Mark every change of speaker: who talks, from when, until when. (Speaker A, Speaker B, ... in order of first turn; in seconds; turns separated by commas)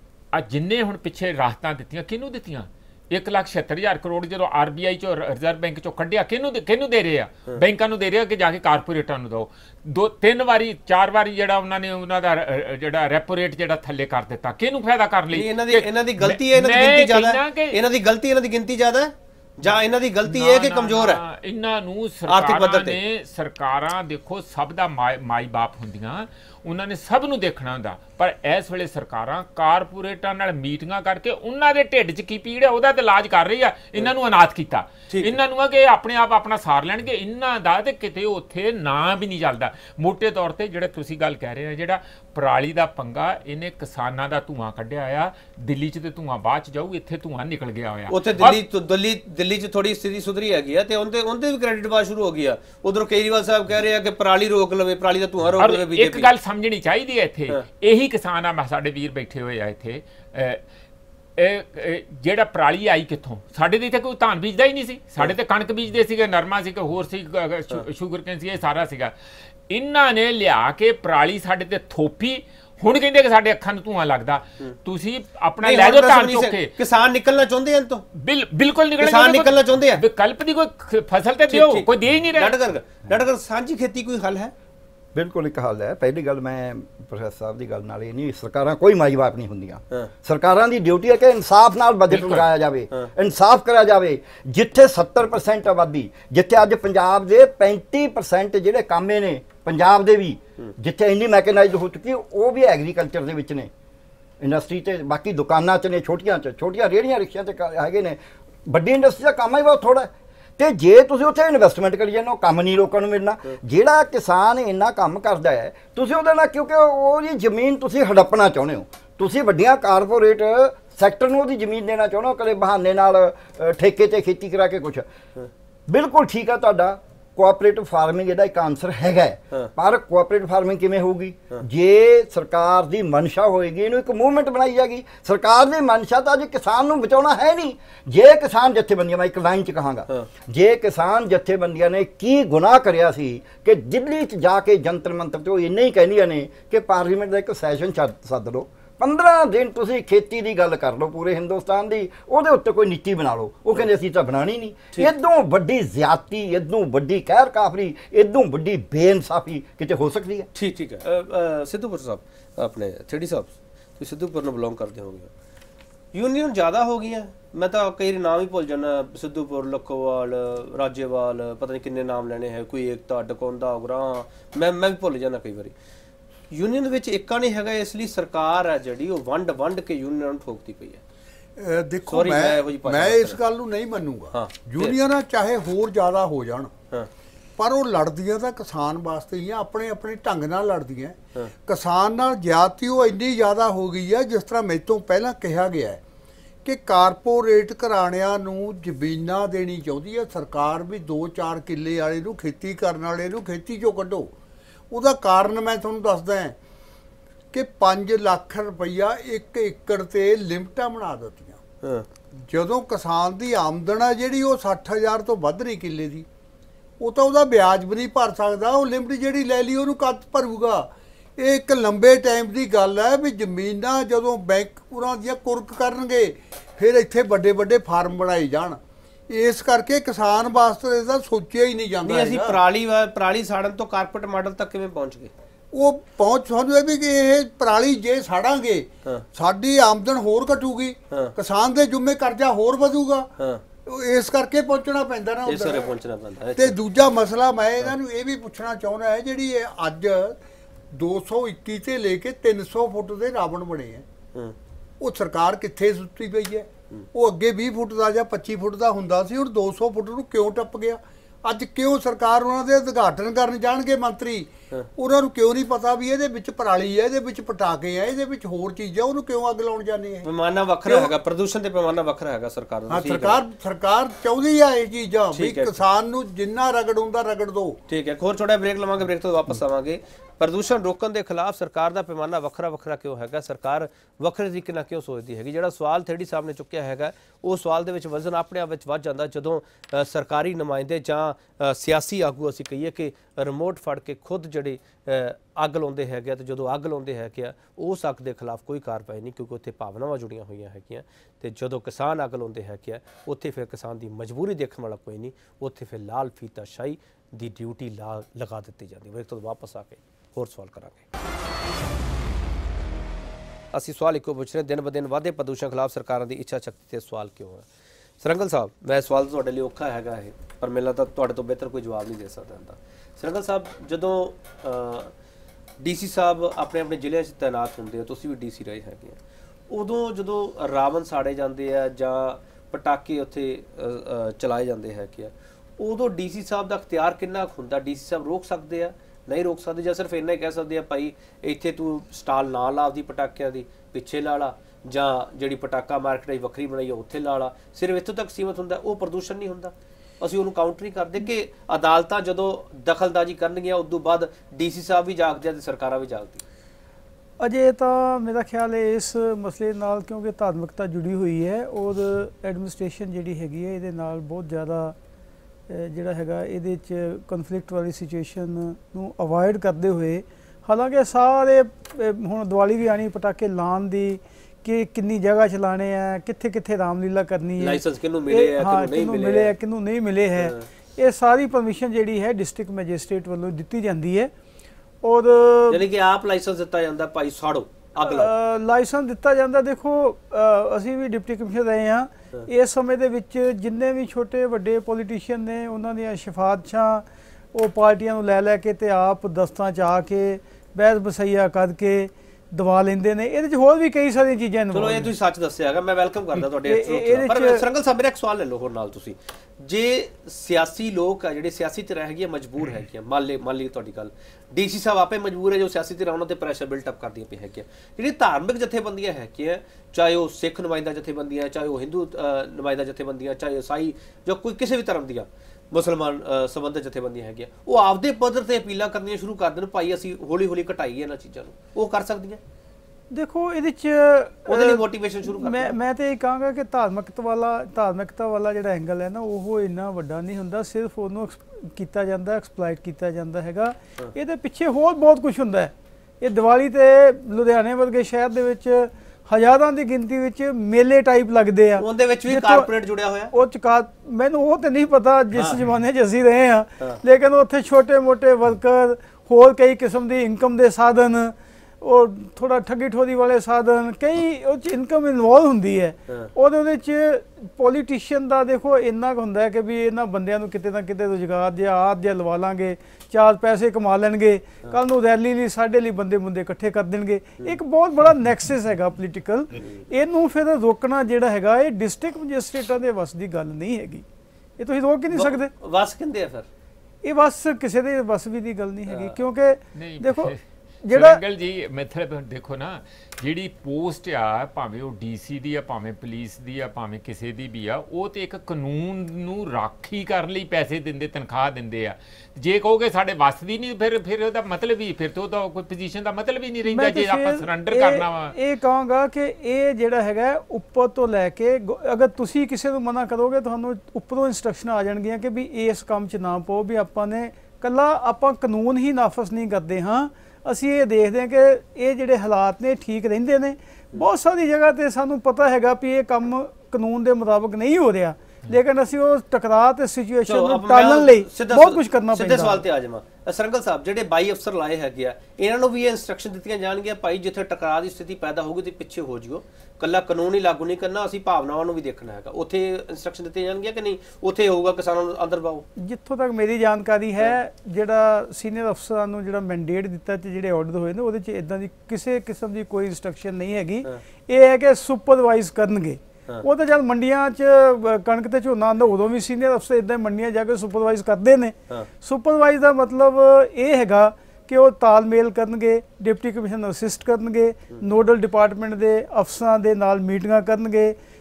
Speaker A: 0.3-17.8, Speaker B: 15.3-21.2, Speaker A: 20.3-48.6, Speaker B: 22.3-23.0, Speaker B: 35.1-35.4, Speaker B: 48.1-56.3, Speaker A: 55.6-60.6, Speaker A: 61.4-69.1, Speaker A: 69.7-76.7, Speaker B: 75.6-78.0, Speaker A: 78.1-82.6, Speaker B: 79.0-80.0, Speaker B: 81.5-84.5, Speaker C: 85.1-103.7, Speaker A: 92.1-92.4, Speaker C: 104.4-125.1, Speaker C: 125.9-160.5, Speaker B: 160.6-165.3, Speaker B: 166.1-175.7, Speaker B: 176.5-181.0, Speaker D: 181.6-186.7, Speaker B: 182.1-183.4, Speaker B: 184.3-185.0, Speaker D: 187.6-196.0, Speaker D: 196.6-204.3, Speaker D: 204.9-206.6, Speaker D: 207.5-211.6, Speaker B: 211.8-212.1, Speaker D: 212.5-216.3, Speaker D: 217.0-232.6, Speaker B: 232.1-235.3, Speaker D: 235.7-243.3, Speaker D: 243.8-245.9, Speaker B: 245.5-246.8, Speaker D: 246.6-250.4, Speaker D: 250.9-254.1, Speaker D: 255.0-270.3, Speaker B: 270.2-273.4, Speaker D: 270.9-271.1, Speaker D: 272.9-277.8, Speaker B: 275.3-275.8, Speaker B: 277.9-311.1, Speaker B: 313.7-317.6, Speaker B: 318.2-325.1, Speaker B: 325.8-329.2, Speaker B: 329.7-356.4, Speaker E: 357.4-364.9, Speaker E: 365.7-384.3, Speaker B: 377.6-379.5, Speaker B: 380.4-380.7, Speaker E: 385.0-385.8, Speaker B: 385.7-388.3, Speaker E: 388.0-405.1, Speaker B: 404.7-432.4, Speaker E: 406.6-407.6, Speaker E: 433.1-452.7, Speaker B: 434.5-435.7, Speaker B: 451.8-453.3, Speaker E: 453.3-484.1, Speaker B: 455.3-455.6, Speaker E: 484.6-485.5, Speaker B: 485.1-486.5, Speaker E: 487.0-491.2, Speaker B: 488.9-489.2, Speaker A: 489.8-490.4, Speaker A: 490.9-508.4, Speaker E: 506.7-532.6, Speaker B: 530.3-545.6, Speaker E: 545.8-571.0